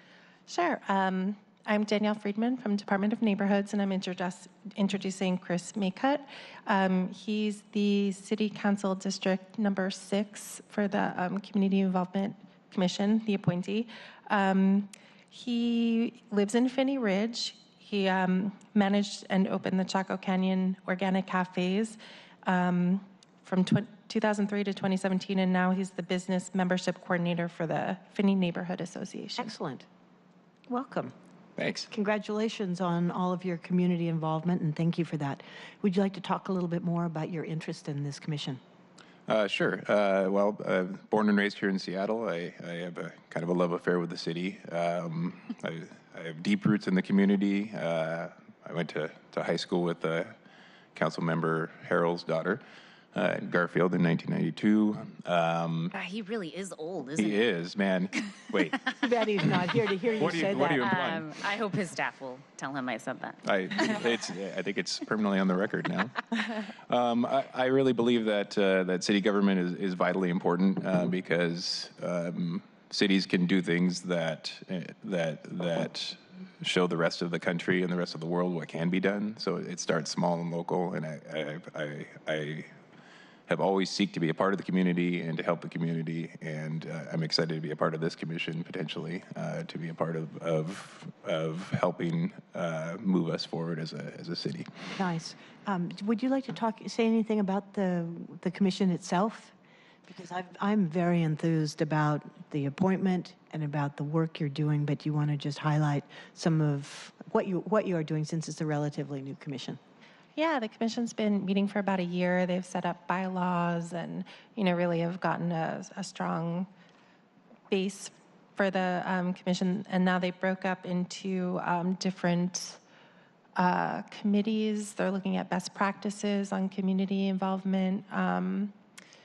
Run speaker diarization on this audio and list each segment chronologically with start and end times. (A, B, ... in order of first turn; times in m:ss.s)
0:00.5-0:29.5 A
0:29.4-0:29.8 B
0:30.7-0:31.1 B
0:31.6-0:31.9 C
0:31.9-0:38.6 B
0:39.3-0:50.4 C
0:50.9-0:52.6 C
0:53.1-0:55.9 C
0:55.9-0:57.5 D
0:57.1-0:58.8 C
0:58.9-1:00.9 B
1:00.2-1:01.3 C
1:00.7-1:03.4 D
1:03.4-1:22.7 C
1:23.5-1:34.7 C
1:35.0-1:39.5 B
1:40.1-1:49.8 B
1:50.4-1:56.7 A
1:57.7-2:02.8 A
2:03.6-2:08.8 A